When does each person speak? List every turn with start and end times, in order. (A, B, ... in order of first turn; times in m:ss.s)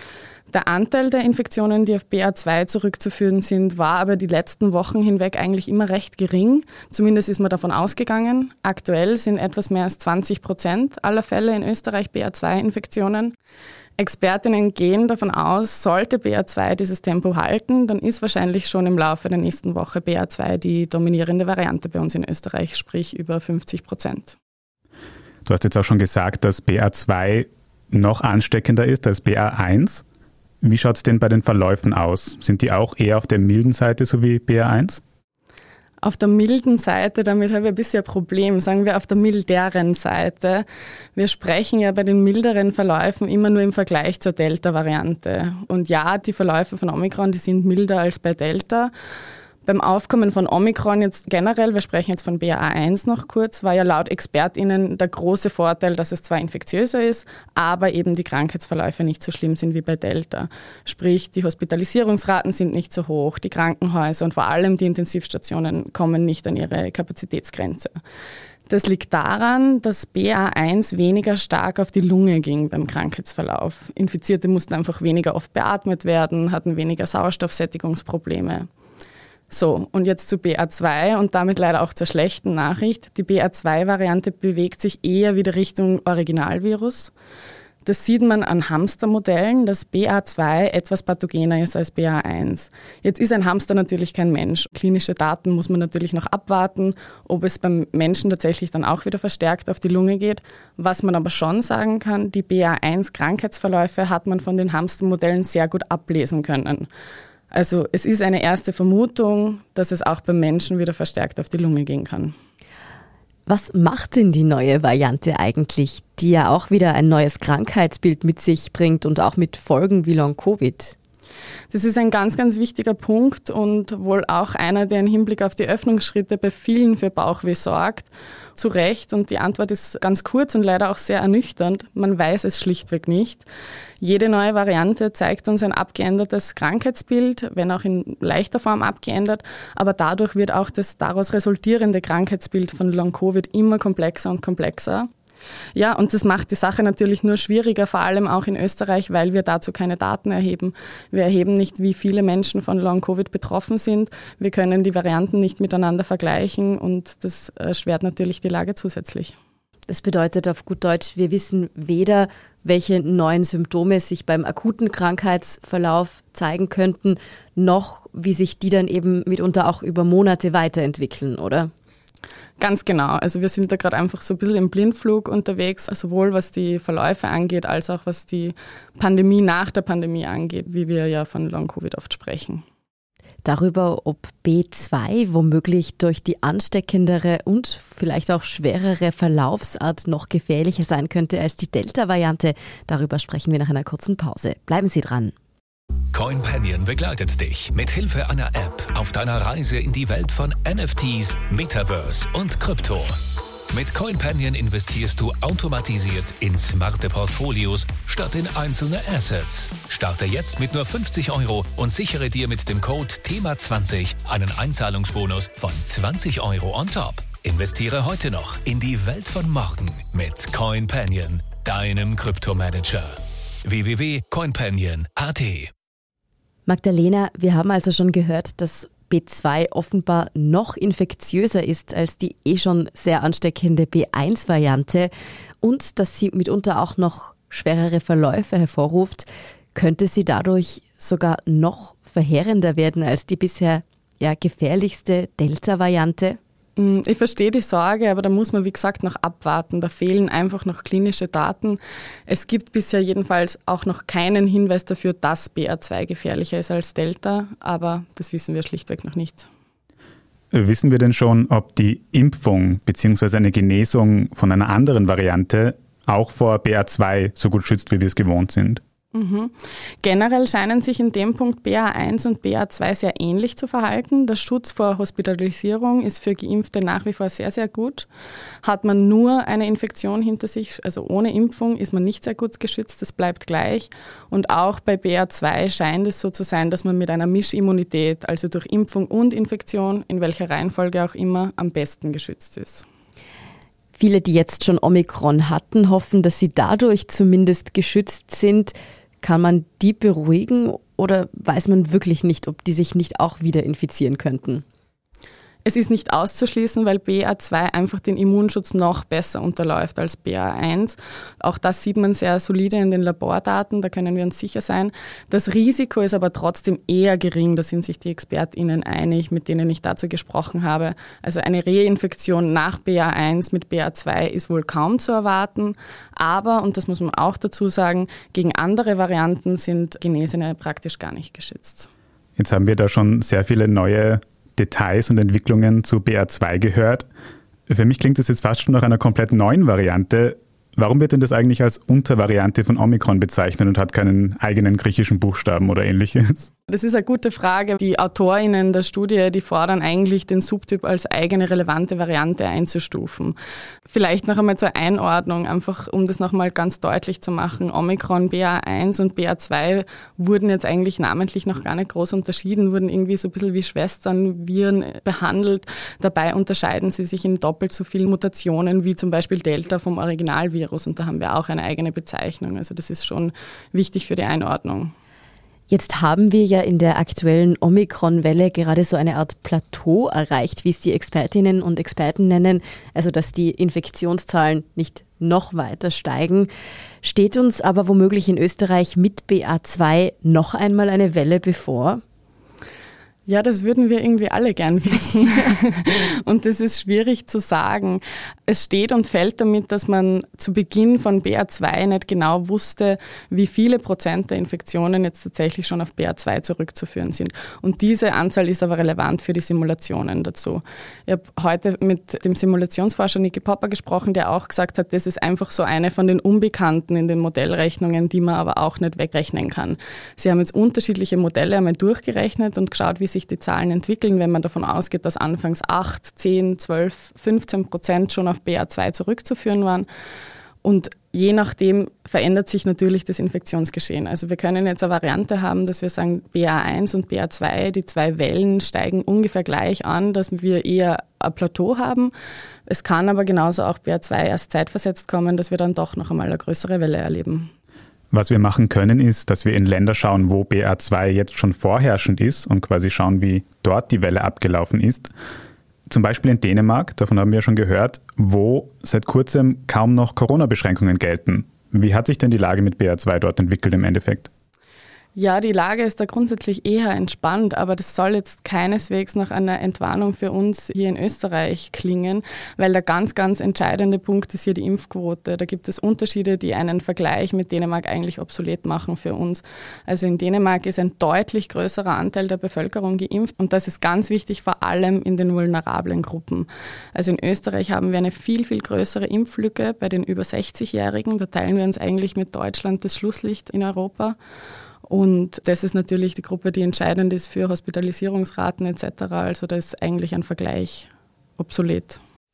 0:00.5-0:13.3 A
0:14.0-0:24.4 A
0:25.4-0:30.0 B
0:30.6-0:35.0 B
0:36.0-0:40.6 A
0:41.2-0:48.9 A
0:49.7-1:07.9 A
1:08.7-1:18.7 A
1:19.5-1:27.1 A
1:27.8-1:46.9 A
1:47.5-1:52.3 A
1:53.5-2:01.0 C
2:01.7-2:13.5 A
2:14.0-2:25.1 A
2:25.8-2:39.4 A
2:39.9-2:51.7 C
2:52.6-3:02.6 A
3:03.4-3:15.3 C
3:16.1-3:23.1 D
3:23.7-3:43.1 D
3:43.6-3:45.7 D
3:46.7-4:06.4 C
4:06.8-4:19.5 A
4:20.5-4:28.8 B
4:29.1-4:38.1 A
4:38.6-4:52.9 A
4:54.0-5:04.6 C
5:05.6-5:31.9 A
5:32.4-5:37.1 B
5:37.7-5:46.5 B
5:46.7-5:53.4 A
5:53.9-6:14.9 A
6:15.7-6:26.5 C
6:27.0-6:32.0 C
6:33.3-7:09.9 A
7:10.6-7:22.1 A
7:22.7-7:27.5 A
7:28.1-7:35.1 B
7:35.9-7:44.3 B
7:45.2-8:14.2 A
8:14.9-8:22.0 A